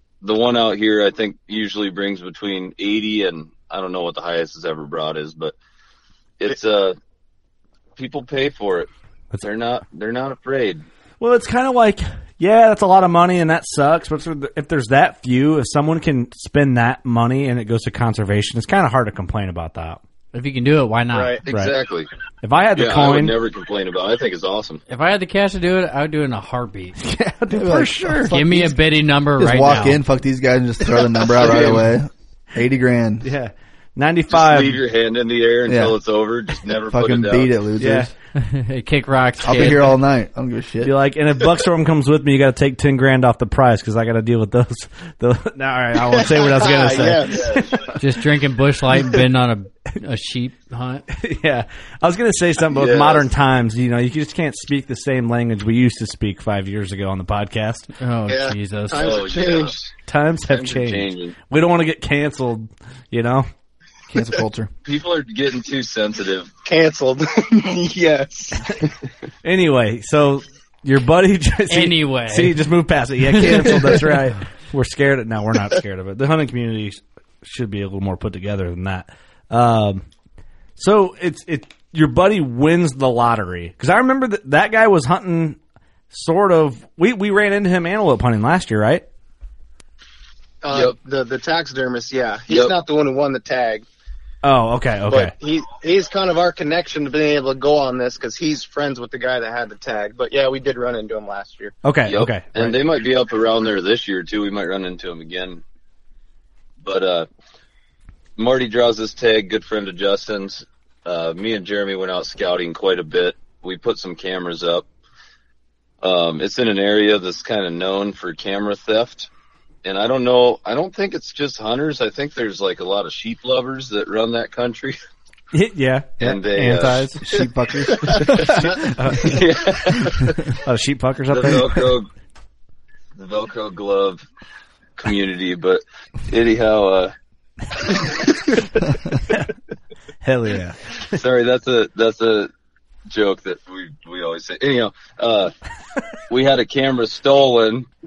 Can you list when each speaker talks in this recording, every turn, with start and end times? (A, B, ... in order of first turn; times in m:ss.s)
0:00.2-0:05.6 A
0:06.4-0:07.0 A
0:08.0-0:08.9 A
0:09.4-0:10.8 A
0:11.2-0:20.0 B
0:20.3-0:21.4 C
0:21.1-0:21.4 D
0:21.4-0:22.1 A
0:21.5-0:21.7 B
0:22.4-0:23.4 B
0:22.7-0:24.8 A
0:24.9-0:27.0 C
0:27.0-0:28.4 B
0:27.5-0:28.8 E
0:28.3-0:30.0 C
0:29.4-0:33.3 E
0:31.4-0:31.8 A
0:31.4-0:31.7 D
0:33.2-0:34.8 B
0:34.3-0:37.5 A
0:35.7-0:36.0 E
0:36.9-0:38.1 E
0:37.8-0:38.1 B
0:38.4-0:40.0 C
0:39.4-0:40.9 E
0:40.8-0:47.9 B
0:46.0-0:47.6 D
0:47.3-0:47.8 A
0:48.0-0:51.0 C
0:51.1-0:57.9 B
0:52.7-0:53.3 A
0:58.0-0:59.1 C
0:58.3-0:59.7 D
0:59.0-0:59.9 A
1:00.1-1:03.5 B
1:00.5-1:01.4 A
1:04.1-1:04.7 E
1:04.8-1:06.5 A
1:06.7-1:08.9 D
1:09.4-1:20.0 B
1:11.7-1:12.6 C
1:13.3-1:14.1 C
1:20.8-1:25.6 B
1:26.1-1:29.0 B
1:30.6-1:33.8 D
1:34.4-1:35.3 B
1:35.1-1:41.8 D
1:41.8-1:42.8 B
1:42.1-1:45.6 A
1:46.8-1:47.3 A
1:48.4-1:54.9 A
1:56.0-1:59.3 A
1:59.8-2:05.0 A
2:05.5-2:07.2 B
2:06.2-2:07.1 A
2:07.2-2:09.2 E
2:08.1-2:08.5 A
2:08.3-2:09.4 B
2:09.2-2:10.4 A
2:10.6-2:11.8 B
2:11.3-2:12.1 A
2:13.2-2:14.2 A
2:15.0-2:17.1 A
2:17.8-2:18.4 A
2:20.2-2:21.0 B
2:21.1-2:22.5 A
2:23.1-2:25.5 A
2:26.3-2:27.9 A